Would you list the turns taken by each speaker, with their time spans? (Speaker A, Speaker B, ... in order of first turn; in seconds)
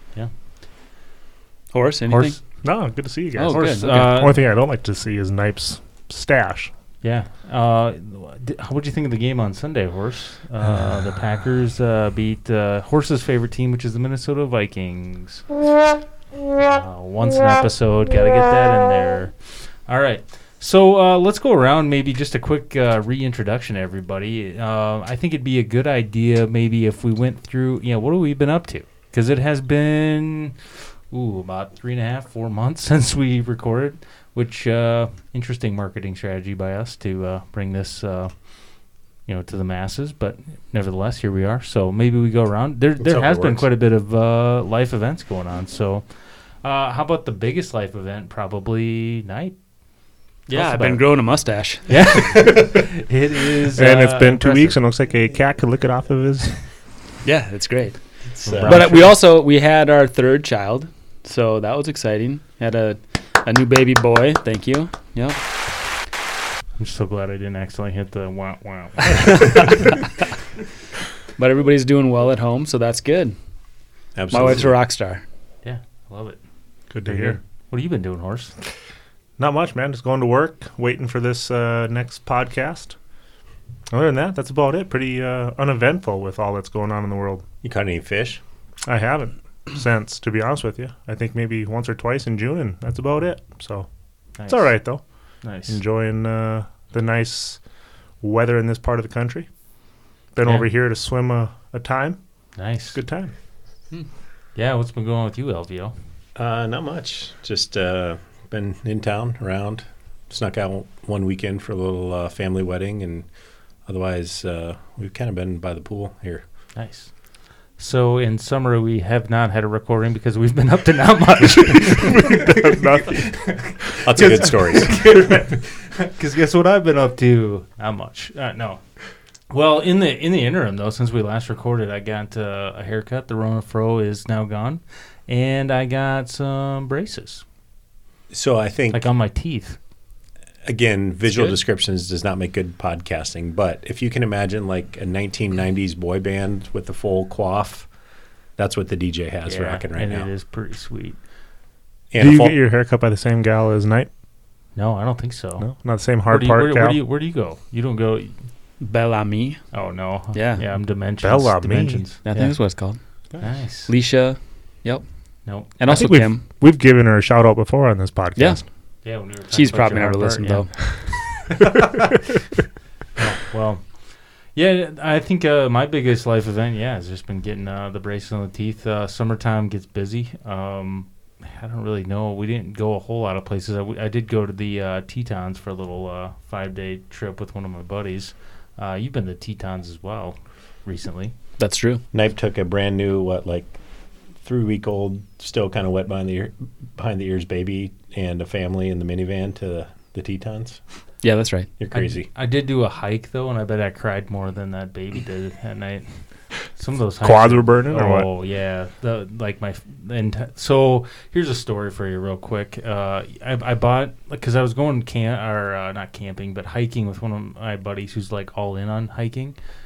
Speaker A: 1.7-2.6, 3.3-4.0, 50.5-52.0, 57.2-58.0, 58.6-65.4, 71.4-73.3, 74.3-75.2, 141.3-141.6, 158.8-159.6, 160.3-160.7, 162.2-163.0, 163.9-166.4, 168.4-168.6, 169.3-170.8, 191.6-192.0, 201.2-201.7
Speaker B: 2.1-2.9, 3.5-4.4, 7.0-15.5, 16.6-46.1, 46.6-49.6, 50.5-51.1, 51.9-54.8, 58.4-59.2, 66.8-69.8, 75.6-76.4, 77.0-78.5, 94.4-95.8, 100.4-100.7, 102.5-103.0, 104.5-105.9, 116.7-128.8, 129.5-137.4, 138.9-139.8, 149.4-151.2, 154.8-155.7, 156.2-158.4, 159.7-162.8, 163.4-163.9, 165.4-165.8, 169.0-172.0, 173.2-191.3, 201.9-219.6
Speaker C: 2.5-6.7, 53.7-56.6, 76.9-77.4, 79.4-83.0, 83.9-87.5, 88.9-97.7, 98.2-99.5, 100.3-103.3, 122.1-123.8, 152.2-154.1, 155.6-157.0, 161.2-162.1, 165.8-168.6, 207.2-208.3
Speaker D: 43.0-43.7, 58.3-58.9, 74.1-74.8, 87.6-88.4, 106.4-116.4, 124.0-125.0, 138.3-139.0, 140.6-147.9, 148.6-150.3, 152.1-152.6, 192.1-193.8, 194.4-200.8, 201.8-202.3